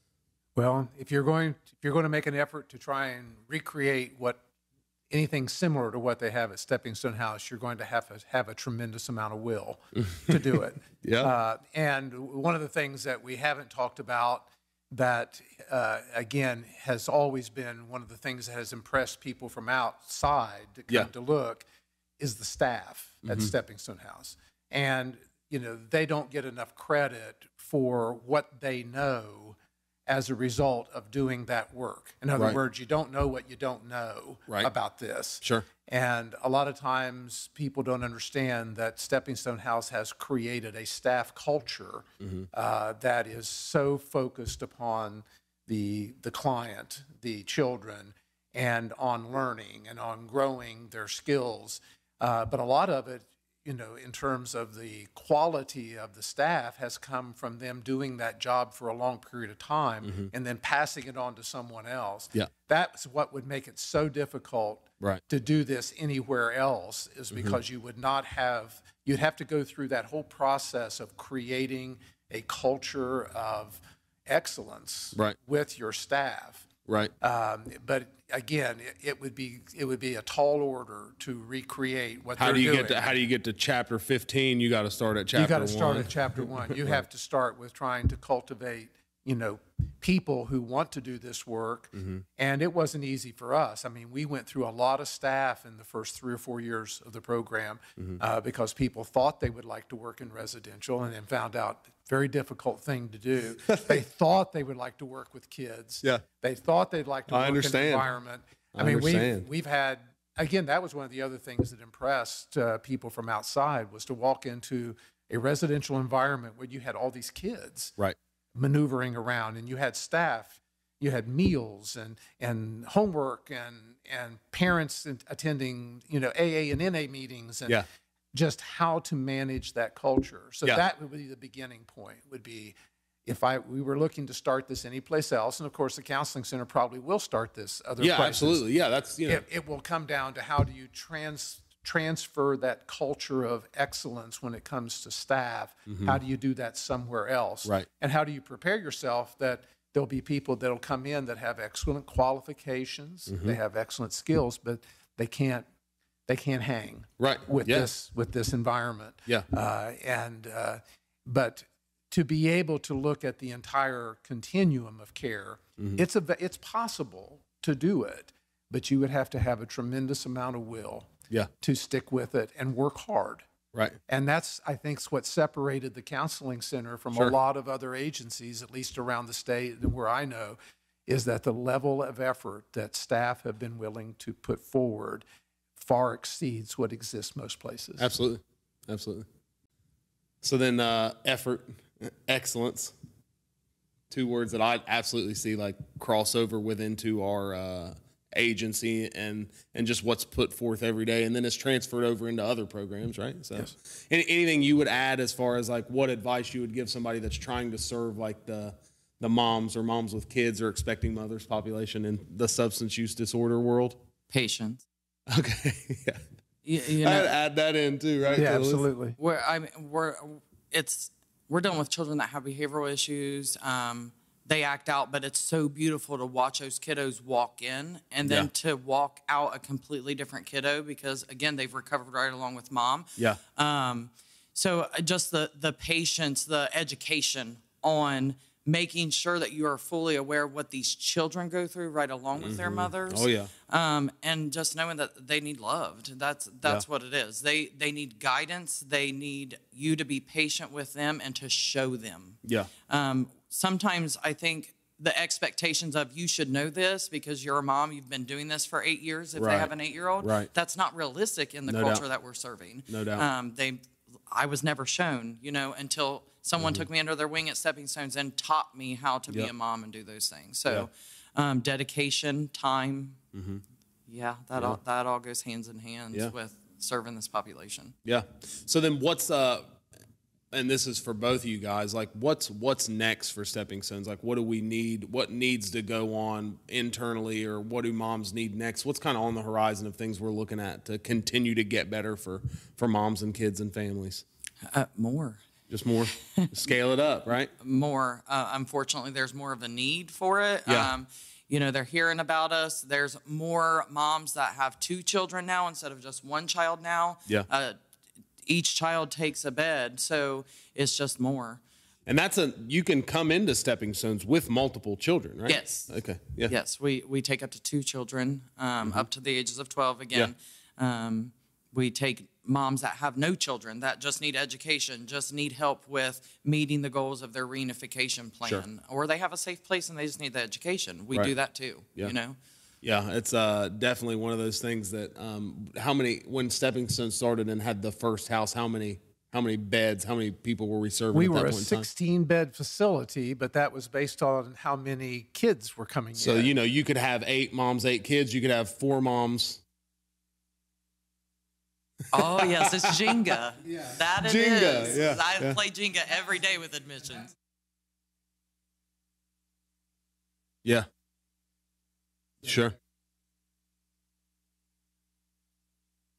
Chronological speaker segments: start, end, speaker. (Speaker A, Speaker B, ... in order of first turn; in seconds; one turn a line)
Speaker A: 0.6-4.4
Speaker A: 5.1-21.6
Speaker B: 11.0-11.3
Speaker A: 22.2-29.6
Speaker B: 23.2-23.5
Speaker A: 30.1-76.7
Speaker B: 42.2-42.5
Speaker B: 60.0-60.3
Speaker B: 67.3-67.6
Speaker B: 76.9-77.1
Speaker A: 77.2-83.2
Speaker B: 82.4-87.0
Speaker A: 85.3-118.0
Speaker B: 92.0-92.2
Speaker B: 103.7-104.0
Speaker B: 107.3-108.1
Speaker B: 108.7-109.5
Speaker A: 118.6-132.7
Speaker A: 133.3-138.7
Speaker B: 138.0-139.4
Speaker A: 139.3-155.7
Speaker B: 145.9-146.2
Speaker B: 153.3-153.6
Speaker A: 156.3-171.1
Speaker B: 157.2-157.9
Speaker A: 171.6-173.4
Speaker A: 174.1-185.2
Speaker A: 185.8-188.1
Speaker B: 188.0-189.3
Speaker B: 190.4-192.9
Speaker B: 194.1-214.0
Speaker C: 214.3-214.8
Speaker B: 215.3-216.2
Speaker C: 216.6-217.3
Speaker B: 216.9-218.9
Speaker A: 218.3-219.2
Speaker C: 219.2-273.2
Speaker B: 228.2-228.5
Speaker B: 242.4-243.5
Speaker B: 252.4-252.7
Speaker B: 259.4-260.5
Speaker B: 261.7-262.0
Speaker B: 262.9-263.3
Speaker B: 266.6-266.9
Speaker B: 273.3-273.6
Speaker C: 274.1-277.9
Speaker B: 278.1-279.8
Speaker B: 280.5-294.2
Speaker C: 294.7-295.4
Speaker B: 295.7-297.5
Speaker C: 296.3-296.7
Speaker C: 297.6-307.8
Speaker B: 300.7-300.9
Speaker C: 308.5-311.6
Speaker B: 312.1-316.6
Speaker C: 315.5-332.4
Speaker B: 318.8-319.1
Speaker B: 332.8-341.9
Speaker A: 341.1-346.5
Speaker B: 346.2-349.6
Speaker C: 352.1-357.3
Speaker B: 354.2-355.6
Speaker B: 362.4-362.8